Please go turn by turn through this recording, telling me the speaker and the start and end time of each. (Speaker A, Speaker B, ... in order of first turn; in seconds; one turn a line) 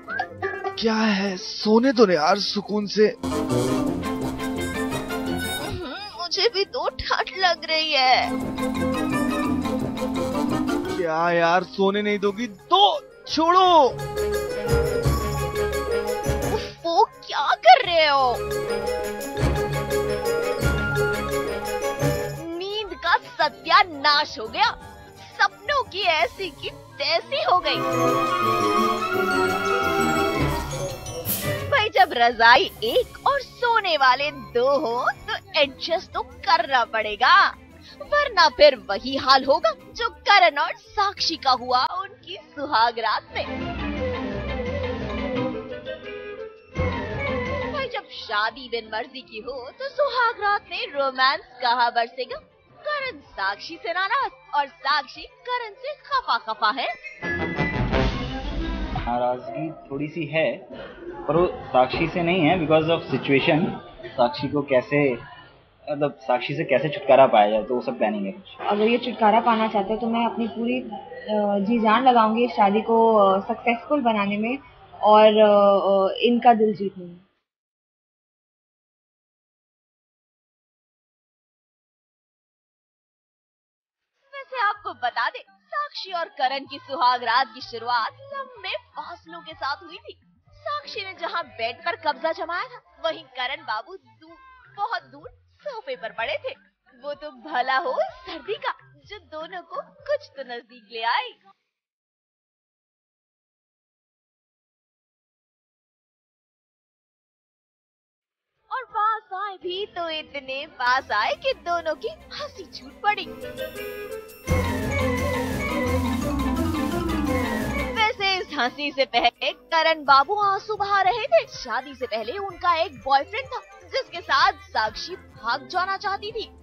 Speaker A: 0.8-3.2
Speaker B: 5.6-8.3
Speaker A: 10.9-14.0
Speaker B: 16.5-18.4
Speaker B: 22.4-27.9
Speaker B: 31.7-43.5
Speaker B: 47.7-56.9
Speaker C: 59.1-60.6
Speaker C: 61.3-65.2
Speaker C: 65.9-68.5
Speaker D: 68.7-77.2
Speaker B: 84.3-101.4
Speaker B: 108.7-113.3
Speaker B: 117.9-126.5